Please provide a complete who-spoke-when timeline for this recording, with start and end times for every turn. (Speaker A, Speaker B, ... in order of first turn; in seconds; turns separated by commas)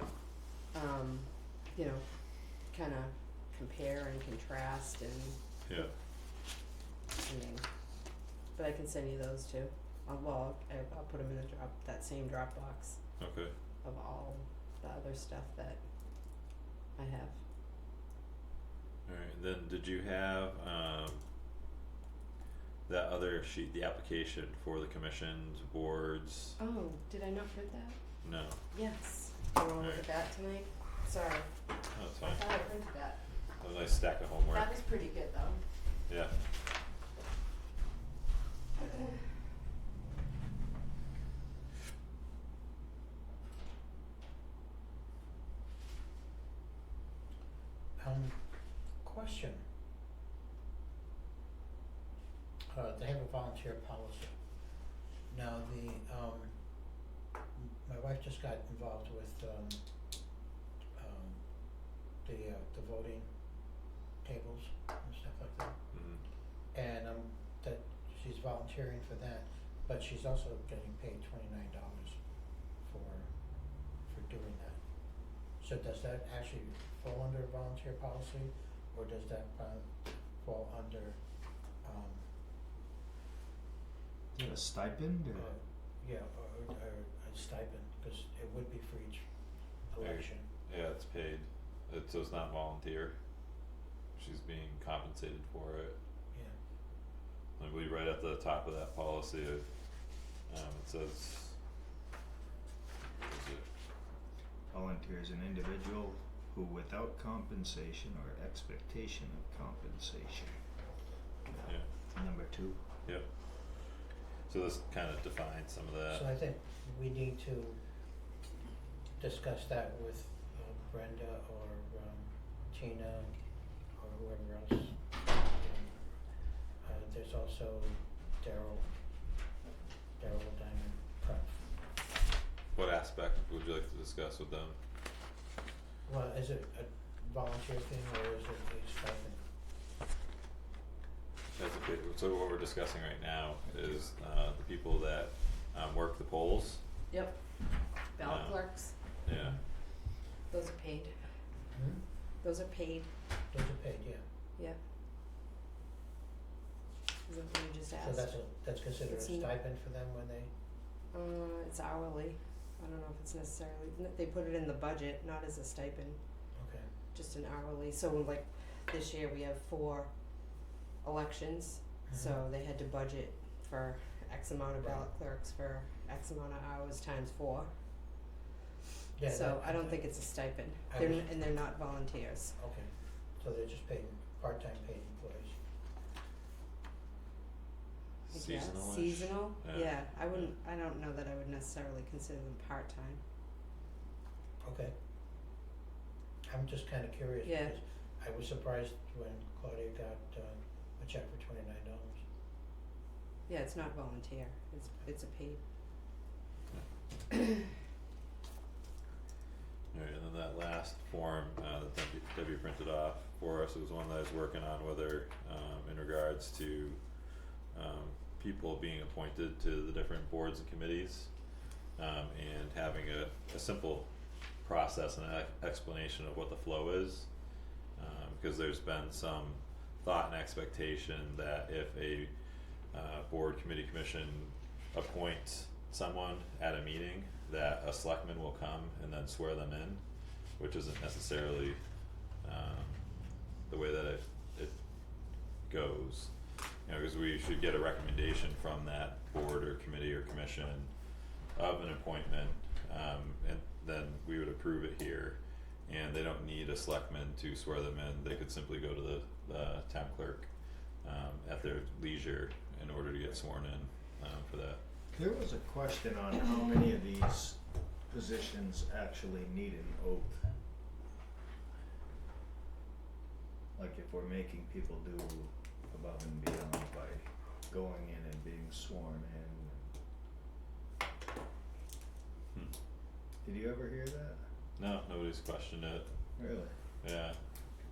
Speaker A: 0.7-2.1, Speaker A: 2.6-5.4, Speaker B: 5.6-5.9, Speaker A: 7.2-7.6, Speaker A: 8.5-13.0, Speaker B: 13.2-13.5, Speaker A: 13.8-15.8, Speaker A: 17.0-17.4, Speaker B: 19.1-21.2, Speaker B: 22.9-26.6, Speaker A: 26.6-28.0, Speaker B: 28.2-28.6, Speaker A: 28.7-31.5, Speaker B: 29.8-30.1, Speaker B: 31.9-32.4, Speaker A: 32.2-33.2, Speaker B: 33.6-34.7, Speaker A: 34.5-35.6, Speaker B: 36.1-36.3, Speaker C: 48.0-48.4, Speaker C: 49.0-49.6, Speaker C: 52.7-54.3, Speaker C: 55.3-56.5, Speaker C: 57.5-59.8, Speaker C: 61.0-61.4, Speaker C: 62.2-63.3, Speaker C: 64.2-65.7, Speaker B: 65.9-66.2, Speaker C: 66.7-72.2, Speaker C: 72.8-73.3, Speaker C: 74.0-74.8, Speaker C: 75.6-81.2, Speaker C: 81.8-82.3, Speaker D: 84.3-85.5, Speaker C: 85.3-89.3, Speaker C: 89.9-90.5, Speaker B: 90.0-93.2, Speaker B: 94.2-96.0, Speaker B: 97.6-99.7, Speaker B: 100.5-101.5, Speaker B: 103.2-103.7, Speaker D: 104.7-110.6, Speaker D: 111.5-112.8, Speaker B: 111.6-111.9, Speaker B: 114.5-116.2, Speaker C: 116.1-117.8, Speaker C: 119.2-123.3, Speaker C: 124.0-125.0, Speaker C: 125.5-126.0, Speaker C: 126.8-128.9, Speaker C: 130.2-131.7, Speaker B: 132.7-134.8, Speaker C: 136.1-139.4, Speaker B: 141.5-146.8, Speaker A: 147.1-147.4, Speaker A: 148.1-148.9, Speaker B: 148.2-148.6, Speaker B: 149.2-149.6, Speaker A: 150.5-151.2, Speaker C: 151.7-152.0, Speaker A: 152.4-153.1, Speaker C: 153.5-154.2, Speaker A: 157.3-158.4, Speaker C: 157.9-160.5, Speaker A: 159.1-159.5, Speaker A: 161.1-166.2, Speaker C: 166.5-166.9, Speaker A: 167.1-170.1, Speaker A: 171.0-177.7, Speaker C: 172.1-172.4, Speaker C: 174.8-175.1, Speaker C: 179.2-180.1, Speaker A: 179.3-182.5, Speaker C: 180.9-181.3, Speaker C: 182.6-185.6, Speaker B: 188.3-190.5, Speaker A: 188.3-193.2, Speaker C: 194.6-194.9, Speaker C: 196.5-202.2, Speaker A: 197.4-197.7, Speaker A: 203.5-205.6, Speaker B: 209.9-221.3, Speaker B: 221.9-224.1, Speaker B: 224.6-227.3, Speaker B: 227.9-232.3, Speaker B: 232.9-240.0, Speaker B: 240.6-241.8, Speaker B: 242.4-243.0, Speaker B: 243.7-244.8, Speaker B: 245.6-250.9, Speaker B: 251.5-260.5, Speaker B: 261.0-264.8, Speaker D: 265.1-270.5, Speaker D: 273.8-279.9, Speaker D: 283.4-284.4, Speaker B: 284.8-286.1, Speaker D: 286.4-286.7, Speaker B: 287.0-287.4